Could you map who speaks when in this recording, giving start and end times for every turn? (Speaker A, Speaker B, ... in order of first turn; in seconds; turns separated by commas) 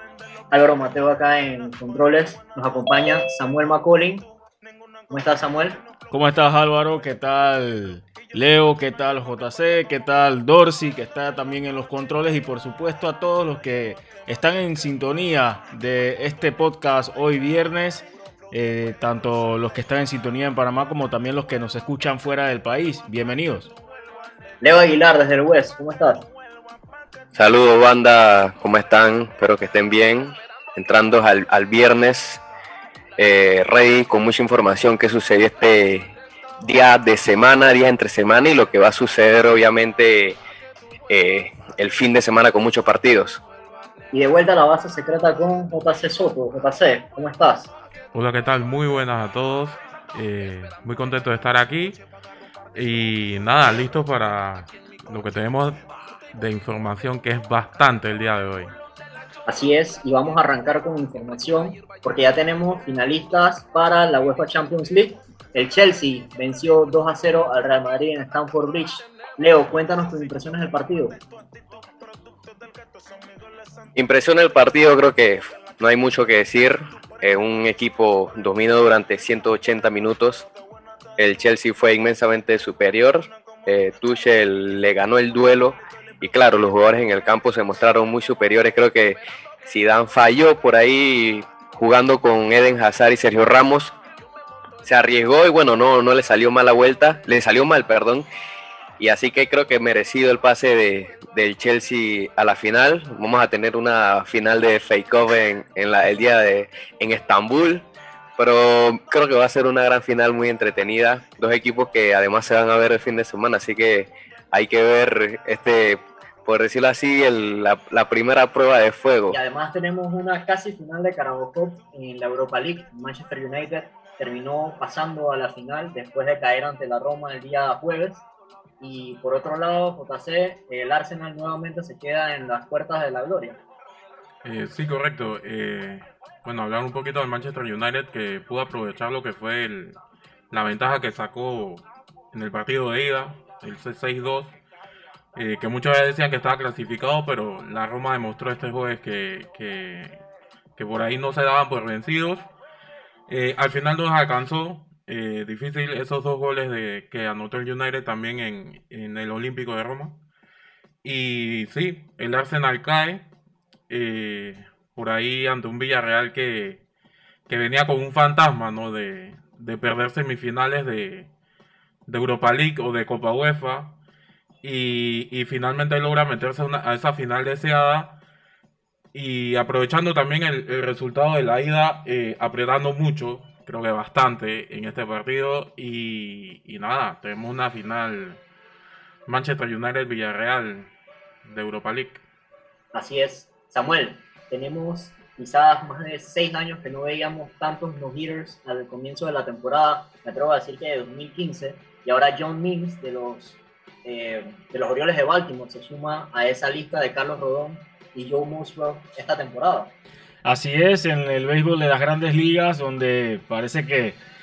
Speaker A: 0.5-4.3, Speaker A: 5.1-5.8, Speaker B: 6.1-23.7, Speaker A: 24.6-26.2, Speaker C: 27.3-32.4, Speaker C: 33.2-40.4, Speaker C: 41.1-43.4, Speaker A: 44.1-47.7, Speaker D: 48.1-52.0, Speaker D: 52.7-55.8, Speaker D: 56.3-58.7, Speaker A: 59.5-71.2, Speaker C: 74.0-80.5, Speaker C: 81.2-93.9, Speaker C: 94.8-98.2, Speaker C: 99.0-107.8, Speaker C: 108.4-119.4, Speaker A: 119.3-128.2, Speaker A: 128.8-133.6, Speaker D: 134.4-140.0, Speaker D: 140.5-144.5, Speaker D: 145.3-150.2, Speaker D: 150.8-152.5, Speaker D: 153.3-160.2, Speaker D: 161.0-163.2, Speaker D: 163.9-166.8, Speaker D: 167.5-171.3, Speaker D: 172.1-173.9, Speaker D: 174.6-178.2, Speaker D: 179.1-188.4, Speaker D: 189.3-190.9, Speaker D: 191.4-192.2, Speaker A: 192.9-209.9, Speaker B: 210.4-214.2